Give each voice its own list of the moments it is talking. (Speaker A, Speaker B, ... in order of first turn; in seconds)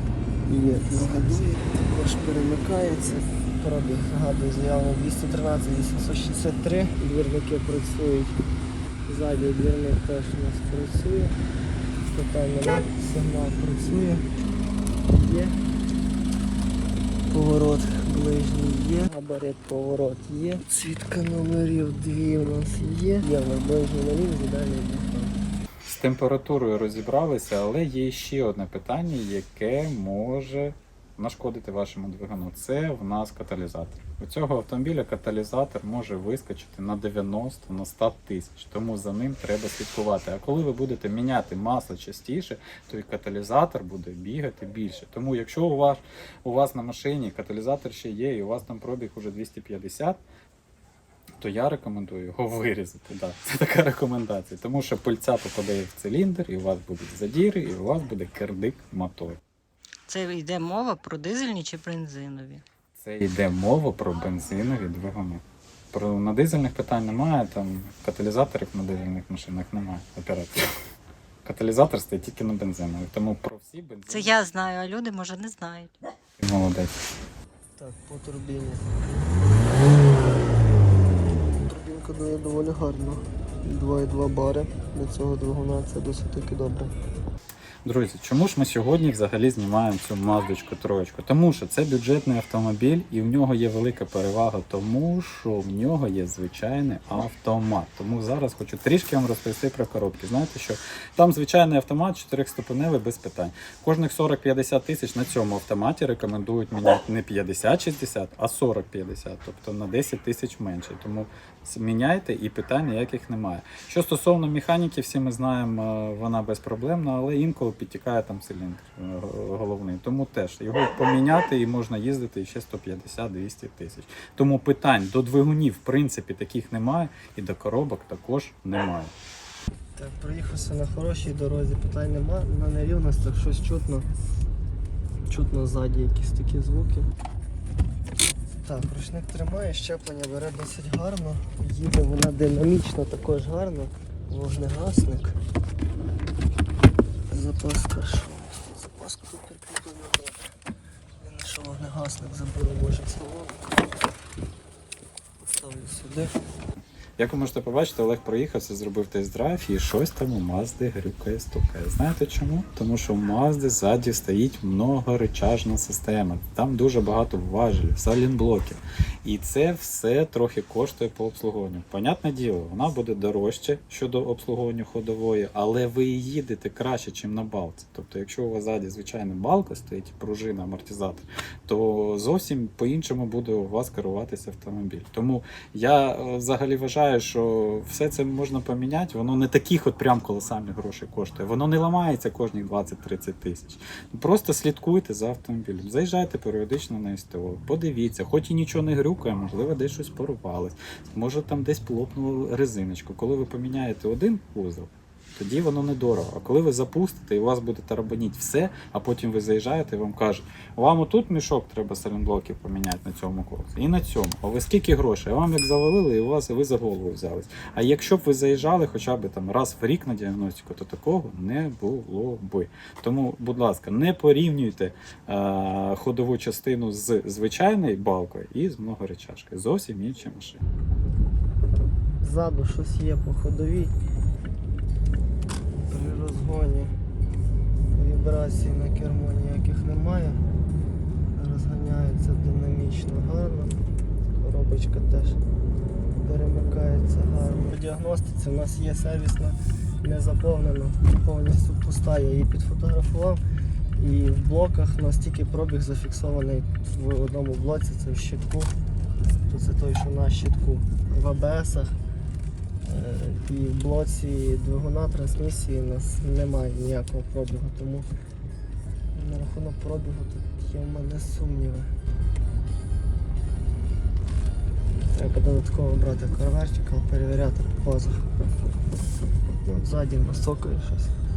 Speaker A: 0.4-8.4, 9.1-11.4, 12.0-14.3, 15.1-15.6, 17.3-25.4, 77.8-78.9, 81.5-86.9, 129.9-134.1, 135.2-137.1, 138.5-145.4, 147.3-150.5, 151.2-154.0, 155.4-156.3, 232.2-233.9, 235.8-237.0, 237.9-240.4, 241.3-245.4, 246.2-253.4, 254.0-258.7, 259.5-262.0, 262.8-268.1, 269.1-271.9, 275.0-278.3, 279.6-281.1
Speaker B: 25.9-50.2, 51.4-59.4, 63.0-70.7, 71.4-74.4, 76.4-76.9, 87.8-129.1, 157.2-230.6
Speaker C: 60.1-62.6, 74.1-75.9